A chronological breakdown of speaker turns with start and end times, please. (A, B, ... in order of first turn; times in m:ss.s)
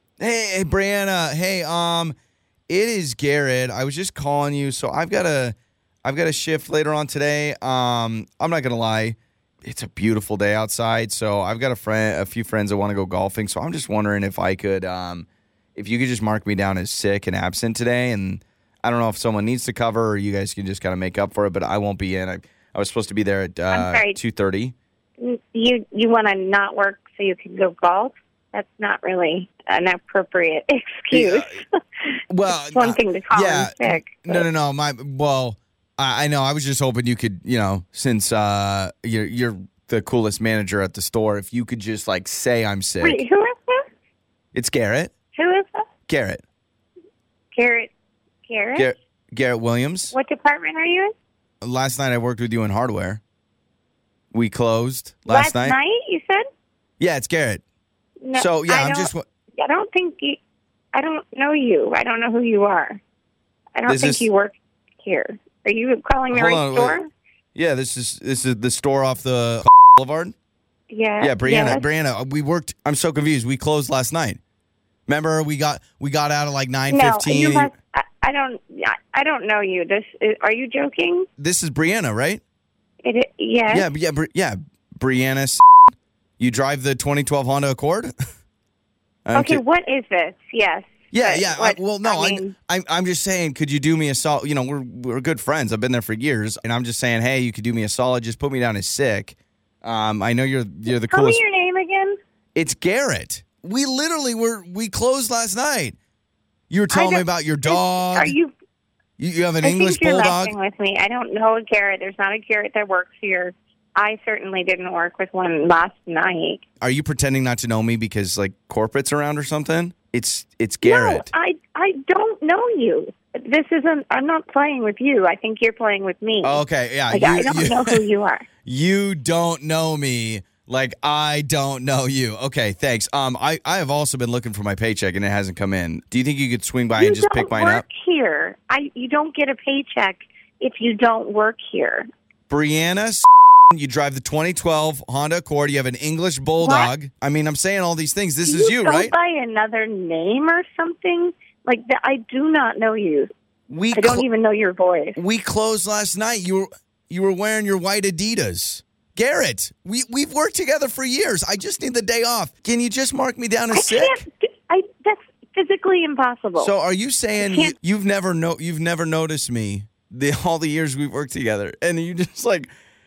0:00.2-0:02.2 A
0:02.7-0:24.8 A
0:23.7-0:24.2 B
0:25.2-0:34.4 B
0:31.1-0:31.6 A
0:32.3-0:43.2 A
0:43.0-0:43.9 B
0:44.5-0:45.1 A
0:45.4-0:45.9 B
0:46.1-0:46.4 A
0:47.5-0:47.9 B
0:48.5-0:48.9 B
0:48.8-0:50.1 A
0:50.1-0:51.2 B
0:51.6-0:53.2 A
0:54.3-0:55.8 A
0:55.3-0:56.4 B
0:57.0-0:57.6 A
0:58.2-1:00.4 B
0:58.4-0:59.2 A
1:00.9-1:03.0 B
1:03.8-1:07.1 B
1:03.9-1:04.3 A
1:06.3-1:07.0 A
1:07.6-1:10.3 A
1:10.9-1:11.9 B
1:11.2-1:14.4 A
1:15.1-1:17.7 A
1:16.9-1:21.3 B
1:21.4-1:22.4 A
1:23.0-1:23.9 B
1:23.7-1:25.6 A
1:26.4-1:28.1 A
1:29.3-1:29.6 A
1:29.3-1:32.5 B
1:31.1-1:41.4 A
1:40.9-1:42.2 B
1:42.6-1:46.0 A
1:46.7-1:48.3 A
1:46.9-1:48.5 B
1:49.2-1:50.6 A
1:49.6-1:56.6 B
1:56.8-2:01.3 A
2:00.8-2:08.5 B
2:06.4-2:08.0 A
2:08.6-2:17.8 A
2:17.0-2:22.1 B
2:22.5-2:29.1 A
2:26.6-2:26.9 B
2:28.4-2:33.3 B
2:33.7-2:34.2 A
2:34.0-2:35.2 B
2:35.2-2:44.2 A
2:43.7-2:46.7 B
2:46.6-2:52.7 A
2:47.4-2:47.8 B